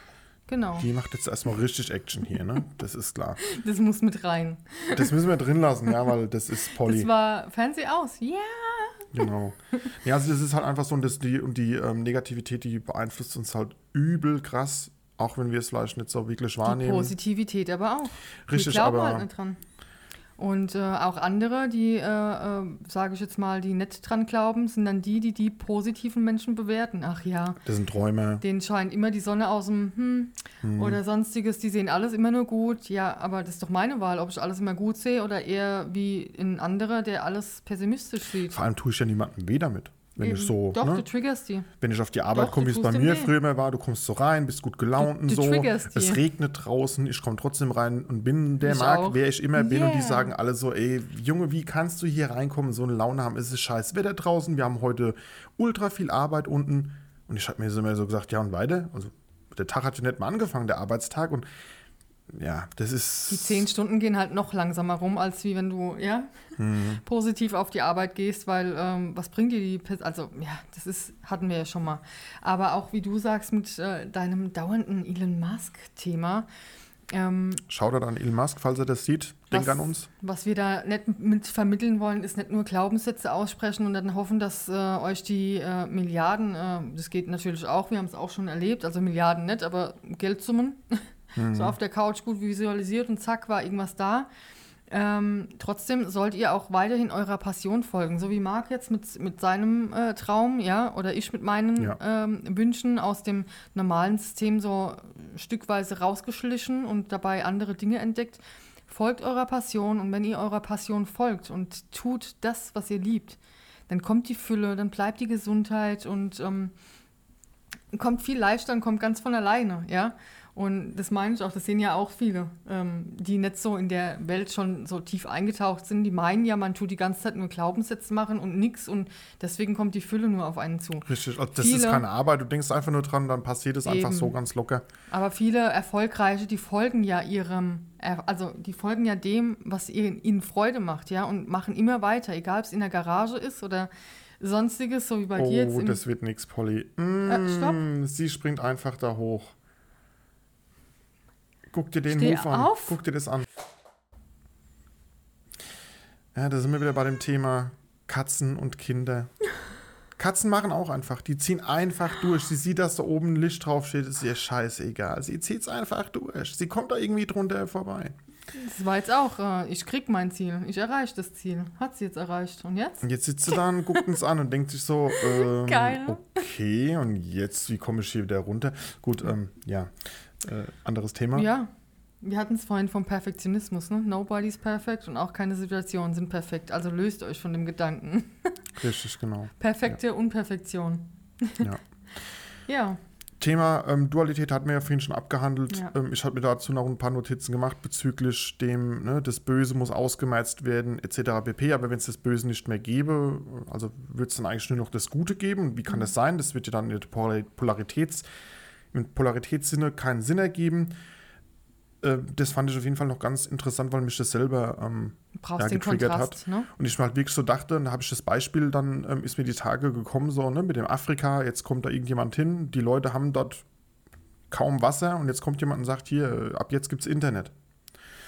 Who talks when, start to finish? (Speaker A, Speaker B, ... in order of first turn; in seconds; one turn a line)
Speaker A: 0.5-0.9
Speaker B: 0.8-3.4
Speaker A: 3.4-5.3
Speaker B: 4.9-7.1
Speaker A: 6.8-9.3
Speaker B: 9.1-17.2
Speaker A: 16.6-19.6
Speaker B: 18.5-19.3
Speaker A: 20.4-27.6
Speaker B: 27.6-28.4
Speaker A: 28.4-38.6
Speaker B: 30.6-31.0
Speaker B: 38.5-41.1
Speaker A: 40.2-41.7
Speaker B: 41.8-61.5
Speaker A: 42.3-43.3
Speaker A: 45.0-46.2
Speaker A: 48.6-50.3
Speaker B: 62.3-63.7
Speaker A: 63.3-76.5
Speaker B: 66.6-67.0
Speaker A: 77.1-77.6
Speaker B: 77.7-80.1
Speaker A: 79.5-94.3
Speaker B: 91.4-91.8
Speaker A: 94.9-116.7
Speaker A: 117.9-132.0
Speaker B: 131.1-134.8
Speaker A: 133.9-134.3
Speaker A: 135.1-146.0
Speaker B: 145.4-149.5
Speaker A: 147.3-147.8
Speaker B: 151.7-153.5
Speaker A: 152.1-153.0
Speaker B: 156.3-159.3
Speaker B: 160.2-168.2
Speaker A: 168.5-174.2
Speaker B: 173.0-181.5
Speaker A: 175.1-176.4
Speaker A: 181.3-181.7
Speaker A: 182.2-188.7
Speaker B: 188.8-189.5
Speaker A: 189.6-191.7
Speaker A: 192.7-193.0
Speaker B: 193.4-208.3
Speaker B: 208.9-210.9
Speaker B: 212.0-223.7
Speaker A: 215.4-216.7
Speaker B: 224.5-227.5